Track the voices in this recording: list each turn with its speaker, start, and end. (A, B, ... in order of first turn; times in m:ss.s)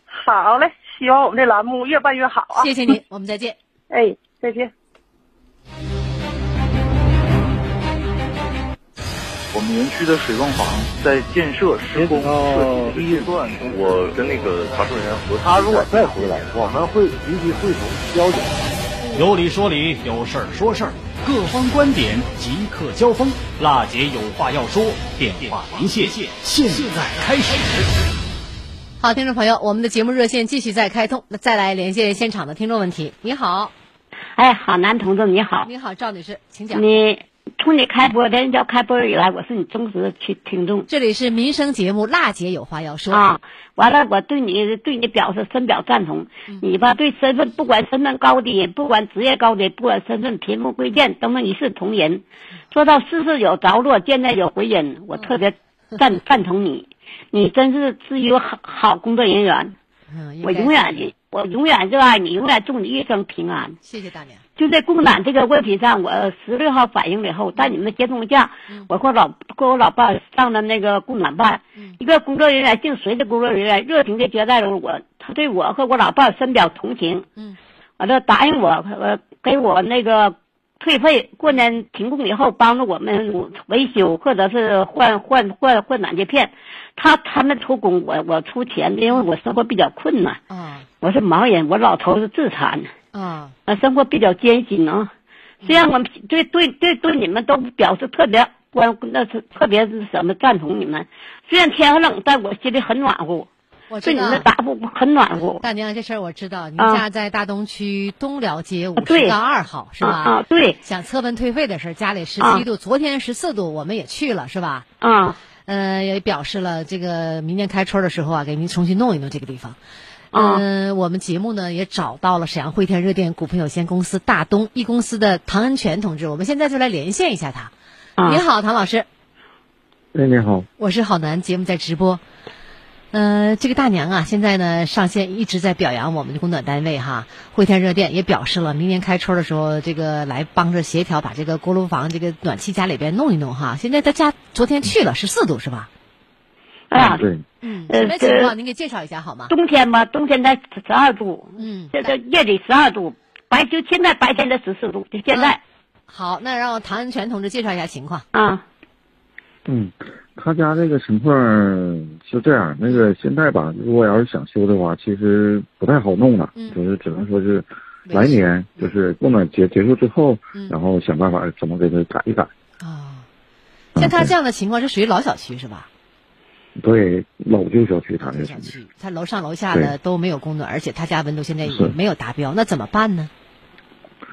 0:00.1-0:02.7 A
0:02.6-0:03.6 B
0:03.9-0:04.7 A
0:09.6-0:13.1 C
0:11.9-0:18.7 D
0:13.7-0:15.5 C
0:19.1-0:27.8 E
0:29.0-0:33.7 B
0:34.4-0:35.7 F
0:35.6-0:36.8 B
0:36.7-0:40.9 F
0:40.9-0:43.2 B
0:43.1-0:59.8 F
1:00.1-1:01.1 B
1:00.4-1:03.8 F
1:03.8-1:04.4 B
1:04.6-1:17.3 F
1:18.0-1:30.4 F
1:30.5-1:30.9 B
1:31.0-1:32.9 F
1:33.1-1:33.6 B
1:33.7-1:35.1 F
1:35.6-1:35.9 B
1:35.7-1:43.5 F
1:43.9-1:44.4 B
1:44.0-1:45.6 F
1:45.6-1:54.9 B
1:46.8-1:47.0 F
1:49.0-1:49.4 F
1:50.0-1:50.8 F
1:52.4-1:52.6 F
1:55.0-1:55.4 F
1:55.7-1:59.8 B
2:00.3-2:00.6 F
2:00.4-2:07.7 B
2:08.2-2:09.1 B
2:10.1-2:10.7 G
2:10.8-2:12.2 B
2:13.1-2:25.9 B
2:26.9-2:27.3 F
2:27.6-2:29.5 B
2:27.9-2:28.5 F
2:29.5-2:35.6 F
2:31.6-2:32.1 B
2:36.1-2:38.3 B
2:38.3-2:38.6 F
2:39.7-2:52.5 G
2:48.1-2:48.9 B
2:52.8-2:53.3 B
2:54.0-2:54.3 G
2:54.0-2:55.9 B
2:56.8-2:58.7 G
2:58.2-3:03.3 B
3:01.7-3:01.9 G